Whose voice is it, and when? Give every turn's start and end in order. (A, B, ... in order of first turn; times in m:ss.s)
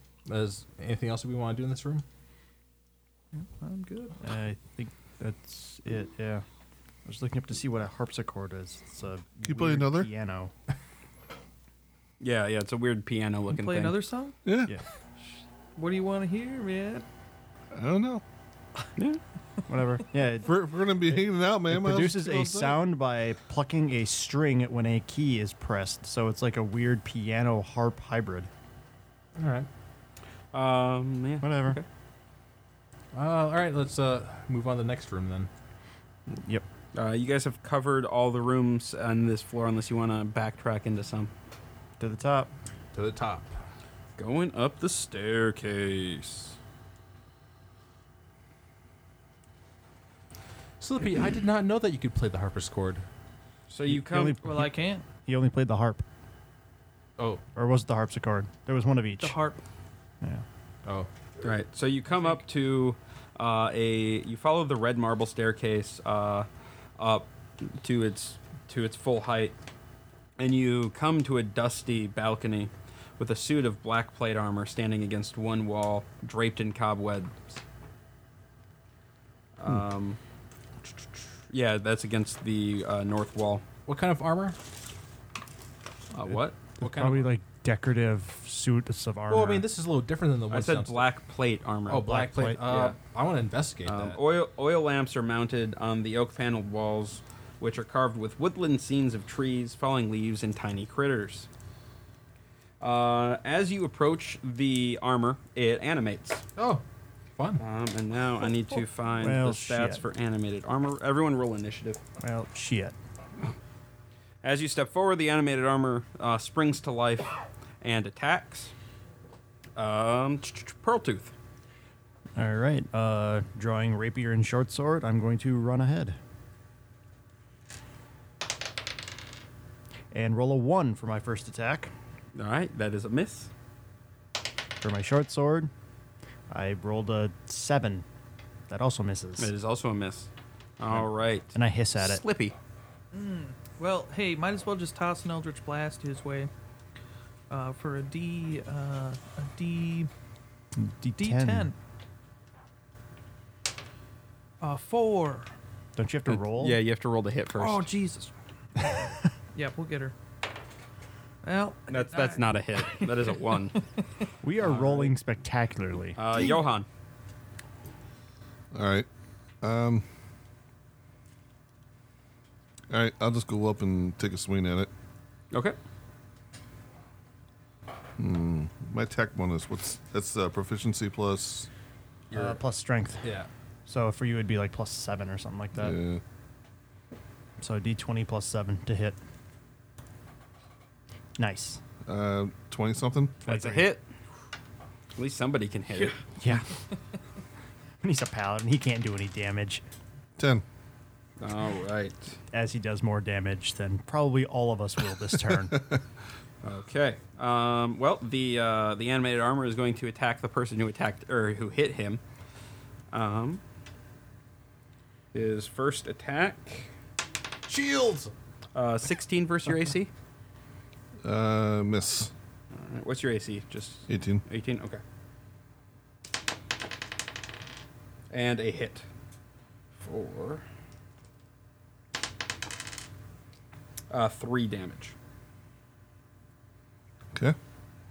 0:00.2-0:02.0 A
0:03.3-0:04.2 B
0:04.2-0:06.4 C
0:07.0-0:10.5 C
0:09.4-0:10.1 D
0:12.2-0:14.0 E
0:13.5-0:14.4 B
0:14.4-0:14.7 D
0:15.8-0:17.0 B
0:17.7-0:18.2 D
0:19.7-0:28.5 C
0:20.4-0:22.2 D
0:22.2-0:22.7 A
0:29.4-0:29.7 A
0:30.5-0:31.8 E
0:31.4-0:31.8 C
0:33.1-0:35.5 A
0:36.4-0:36.6 C
0:36.9-0:41.3 E
0:42.0-0:42.5 C
0:42.9-0:43.6 A
0:44.2-0:46.5 E
0:50.8-0:53.0 A
0:53.7-0:54.4 E
0:53.9-0:56.0 C
0:54.4-0:55.0 B
0:57.5-0:59.4 C
0:59.2-0:59.6 B
1:01.4-1:09.6 E
1:10.4-1:17.4 E
1:19.6-1:20.2 E
1:21.5-1:23.6 E
1:23.9-1:24.6 A
1:26.1-1:26.6 E
1:26.8-1:27.3 A
1:26.8-1:29.6 C
1:29.3-1:31.1 A
1:30.5-1:32.1 E
1:31.9-1:34.2 A
1:32.0-1:32.6 C
1:32.7-1:33.0 E
1:33.8-1:41.5 E
1:42.8-1:46.4 E
1:46.6-1:46.8 A
1:47.6-1:52.0 E
1:49.2-1:50.0 C
1:52.2-1:53.0 C
1:54.4-1:58.7 E
1:59.8-2:01.3 E
2:02.4-2:06.2 C
2:10.1-2:11.9 C
2:12.3-2:13.5 E
2:14.8-2:15.7 C
2:16.5-2:18.0 C
2:18.7-2:19.5 C
2:19.4-2:22.6 E
2:20.9-2:22.2 C
2:23.1-2:26.5 B
2:27.5-2:30.1 B
2:30.8-2:31.7 C
2:31.2-2:31.8 B
2:34.6-2:35.5 B
2:36.0-2:36.8 C
2:36.3-2:37.9 E
2:37.6-2:38.9 B
2:39.5-2:40.1 B
2:41.4-2:43.3 B
2:41.9-2:43.8 E
2:44.4-2:46.5 C
2:44.6-2:45.1 E
2:46.2-2:46.8 E
2:48.7-2:49.1 D
2:49.6-2:50.1 D
2:52.9-2:54.9 D
2:58.2-3:01.7 D
3:02.3-3:02.6 A
3:02.3-3:03.3 C
3:03.2-3:03.5 A
3:03.8-3:06.0 C
3:05.8-3:06.2 D
3:07.6-3:09.2 C
3:11.4-3:11.8 C
3:12.0-3:13.4 D
3:13.4-3:14.0 E
3:13.5-3:13.9 C
3:15.2-3:16.2 E
3:16.4-3:16.7 C
3:18.0-3:19.8 C
3:20.4-3:20.6 D
3:21.4-3:22.4 E
3:22.5-3:25.8 C
3:25.6-3:26.0 D
3:26.6-3:32.2 E
3:33.1-3:33.6 E
3:35.3-3:36.9 E
3:37.7-3:38.3 A
3:38.7-3:40.1 E
3:41.2-3:42.3 D
3:42.7-3:45.0 E
3:44.1-3:44.4 D
3:48.3-3:49.1 E
3:49.9-3:50.6 E
3:54.1-3:55.2 E